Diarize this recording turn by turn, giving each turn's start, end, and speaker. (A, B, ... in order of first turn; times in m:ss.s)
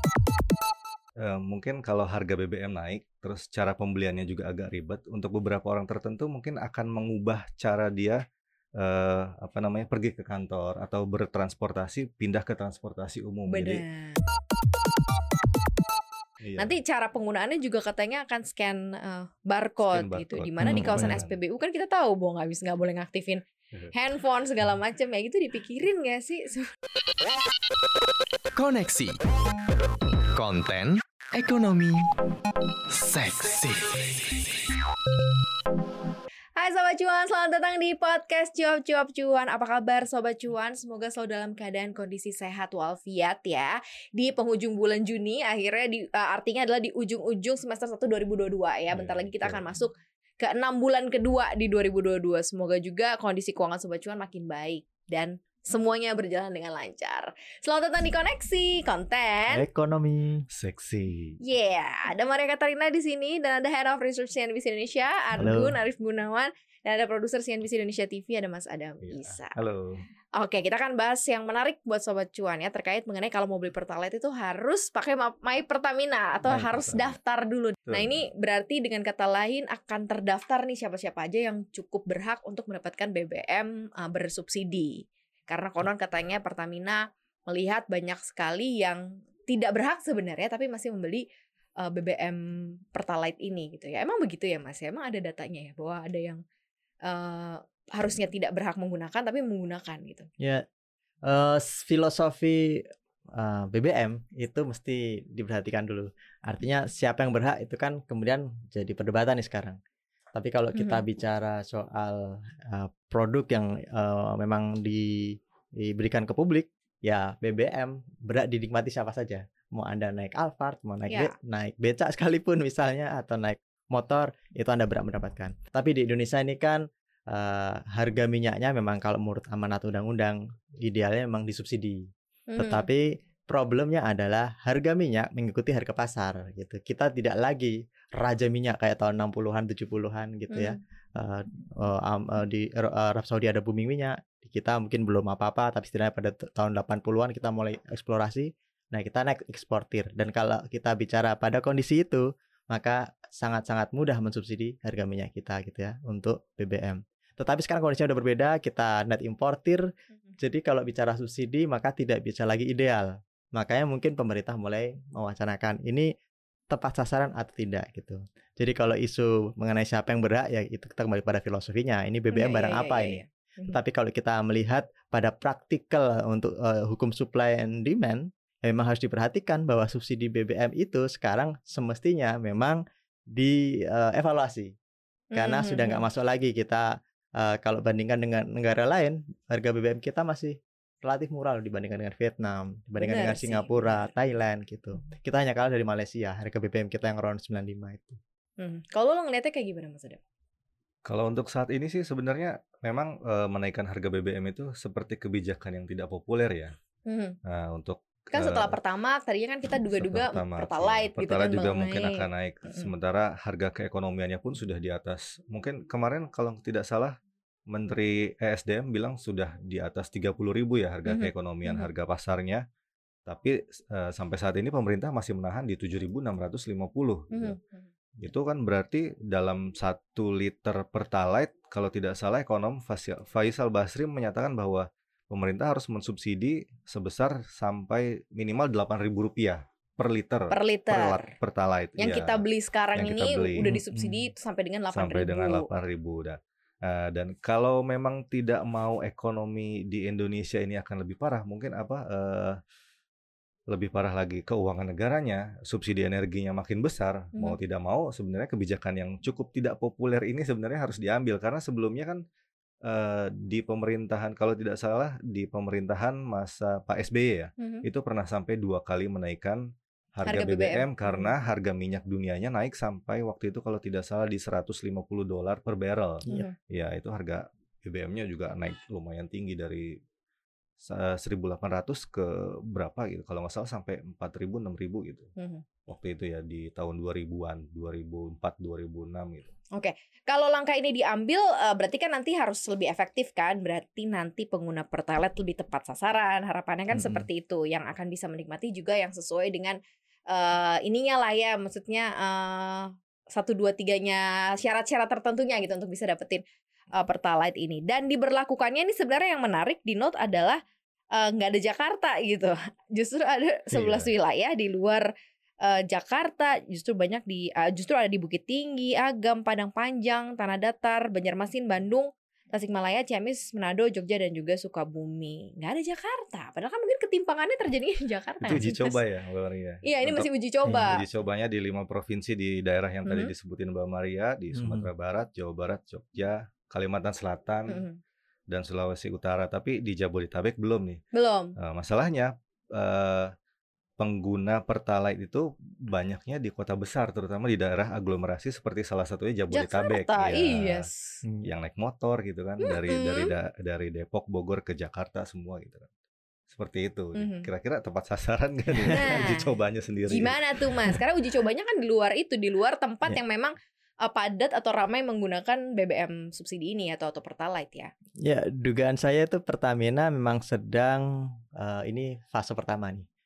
0:01.2-0:08.2 A
0:08.8-0:13.8 A
0:13.5-0:14.2 B
0:16.4-0:16.8 A
0:16.6-0:26.6 B
0:19.8-0:21.4 A
0:20.6-0:21.2 C
0:28.5-0:29.2 D
0:30.3-0:32.1 D
0:32.9-0:34.4 D
0:36.6-0:59.6 B
0:48.9-0:49.8 A
0:59.5-1:00.4 C
1:00.5-1:01.4 A
1:01.4-1:09.6 B
1:05.4-1:05.7 C
1:09.0-1:10.0 A
1:10.4-1:31.2 B
1:16.5-1:17.2 A
1:17.9-1:18.3 A
1:31.8-1:32.4 B
1:32.9-1:36.4 B
1:37.1-1:40.3 B
1:41.3-1:42.8 C
1:43.4-1:49.8 C
1:50.3-2:12.1 C
1:50.8-1:51.0 B
2:12.5-2:12.9 B
2:12.6-2:39.8 C
2:20.5-2:20.8 B
2:40.4-2:46.1 C
2:46.7-3:02.8 C
2:52.3-2:53.8 B
3:03.4-3:04.7 C
3:05.3-3:06.0 B
3:05.4-3:06.9 C
3:07.4-3:18.2 C
3:13.0-3:14.0 B
3:18.6-3:20.2 B
3:21.1-3:26.7 A
3:27.1-3:27.4 B
3:27.4-3:28.8 A
3:28.3-3:32.9 B
3:29.8-3:37.2 A
3:37.7-3:42.6 A
3:41.1-3:41.9 B
3:43.3-3:47.6 A
3:47.3-3:47.9 B
3:48.2-4:03.8 A
4:00.5-4:01.3 B
4:02.0-4:05.7 B
4:03.6-4:04.3 C
4:04.9-4:12.6 A
4:13.7-4:22.2 A
4:22.8-4:29.6 A
4:27.6-4:27.8 B
4:30.2-4:40.0 A
4:30.3-4:31.3 B
4:36.3-4:36.5 B
4:40.9-4:45.3 A
4:45.4-4:45.6 B
4:45.9-4:49.5 A
4:49.8-4:59.8 B
4:57.0-4:57.2 C
5:00.3-5:06.4 B
5:07.0-5:10.6 B
5:11.1-5:15.1 B
5:13.7-5:14.1 A
5:15.6-5:29.0 B
5:28.4-5:37.8 A
5:29.8-5:31.0 B
5:33.1-5:33.3 B
5:34.5-5:34.9 C
5:37.7-5:38.0 B
5:38.5-5:41.0 A
5:41.1-5:41.5 B
5:41.6-5:43.3 A
5:44.0-5:50.9 A
5:49.5-5:51.2 B
5:51.4-5:55.9 A
5:52.6-5:53.3 B
5:56.5-6:01.0 A
5:57.2-5:57.5 B
5:58.9-5:59.3 C
5:58.9-5:59.5 B
6:00.1-6:07.9 B
6:08.2-6:13.1 C